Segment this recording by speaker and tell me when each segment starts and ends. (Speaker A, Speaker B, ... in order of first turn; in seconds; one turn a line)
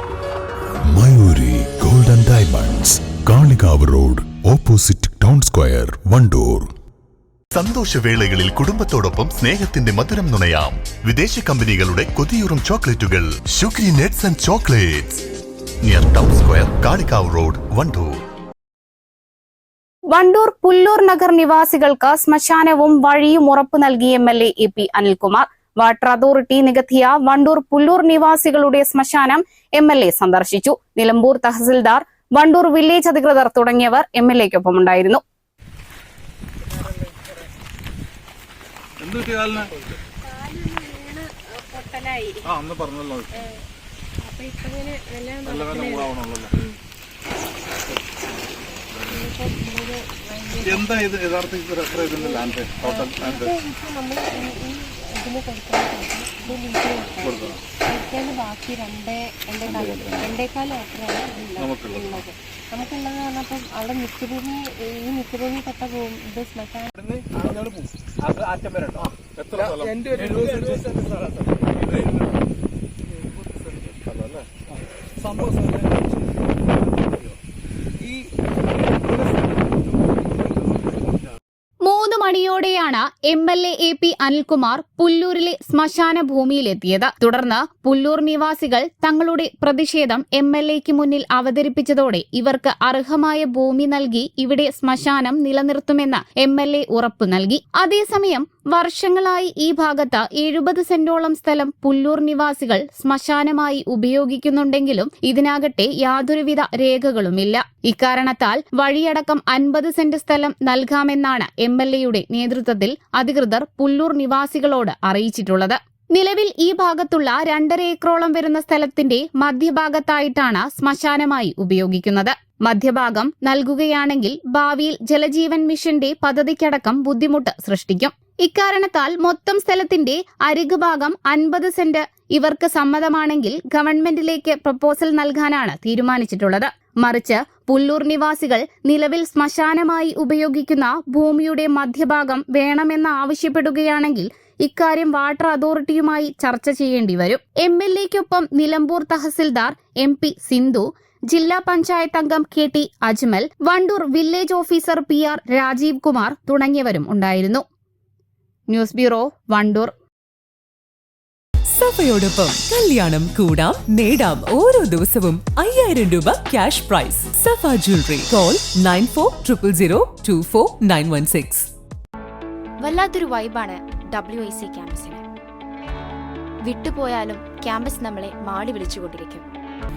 Speaker A: 0.9-6.7
Speaker B: 7.5-15.2
Speaker B: 15.8-18.2
Speaker C: 20.1-35.2
Speaker D: 39.0-39.7
Speaker E: 40.3-42.5
Speaker D: 42.5-43.3
Speaker E: 44.2-46.7
Speaker D: 45.4-46.5
Speaker E: 49.0-51.1
Speaker D: 50.6-53.6
Speaker E: 52.1-66.9
Speaker D: 57.2-57.6
Speaker D: 61.6-62.2
Speaker D: 67.0-71.3
Speaker D: 71.8-72.1
Speaker D: 73.8-74.5
Speaker D: 75.2-76.2
Speaker D: 78.0-78.2
Speaker D: 78.9-79.6
Speaker C: 81.8-157.7
Speaker C: 158.7-159.9
Speaker F: 161.7-171.7
Speaker G: 172.8-175.2
Speaker G: 176.6-179.4